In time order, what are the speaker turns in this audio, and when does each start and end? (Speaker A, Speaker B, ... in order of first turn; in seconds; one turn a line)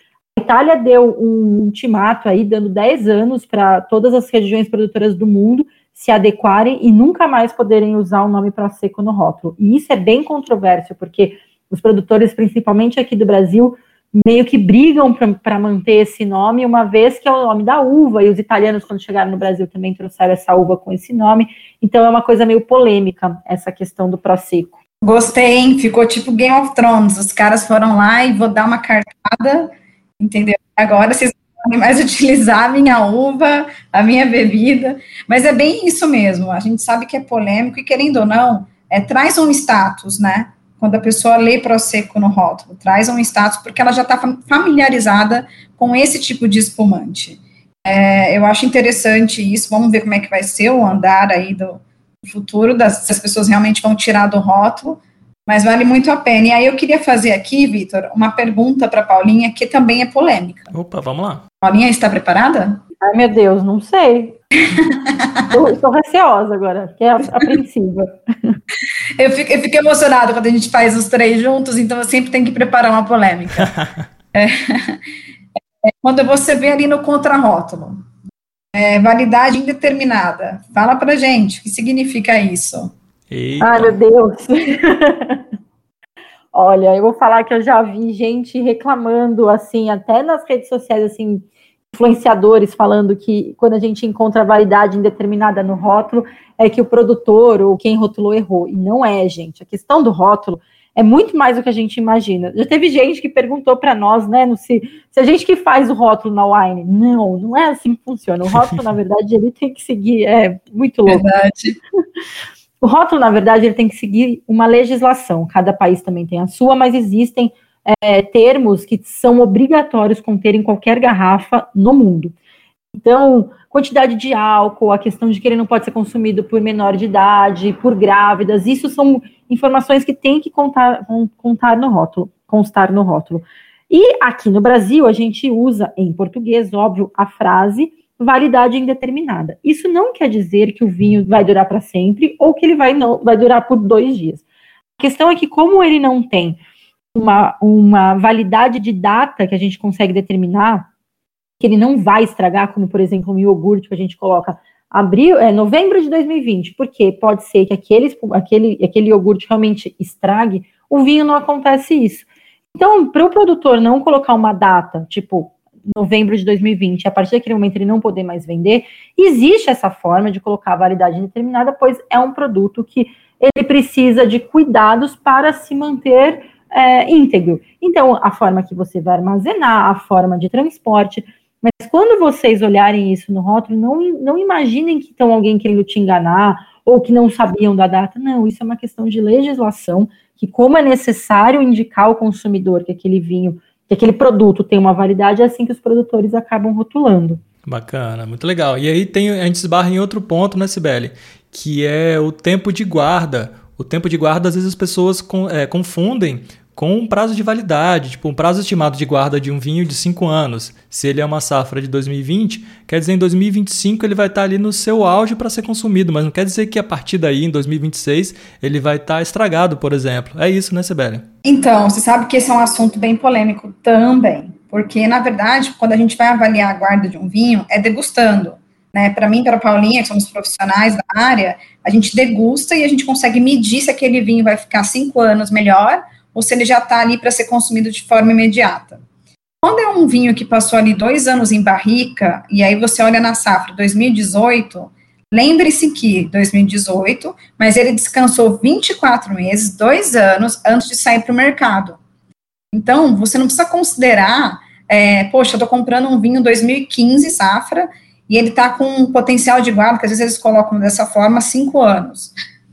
Speaker A: 0.4-24.8
Speaker B: 25.0-60.7
Speaker C: 60.7-61.4
Speaker B: 61.6-62.8
Speaker A: 63.0-64.4
Speaker B: 64.7-65.5
Speaker A: 65.5-68.6
Speaker B: 69.2-73.7
Speaker B: 74.3-75.0
Speaker B: 76.0-78.0
Speaker B: 78.7-82.9
Speaker C: 83.3-84.0
Speaker A: 83.6-85.4
Speaker A: 86.5-111.3
Speaker B: 111.1-111.8
Speaker A: 112.8-122.3
Speaker A: 122.9-144.4
Speaker A: 145.0-146.6
Speaker A: 147.1-150.9
Speaker A: 151.6-197.4
Speaker C: 197.7-221.2
Speaker B: 221.4-239.0
Speaker B: 239.6-252.0
Speaker B: 252.7-262.3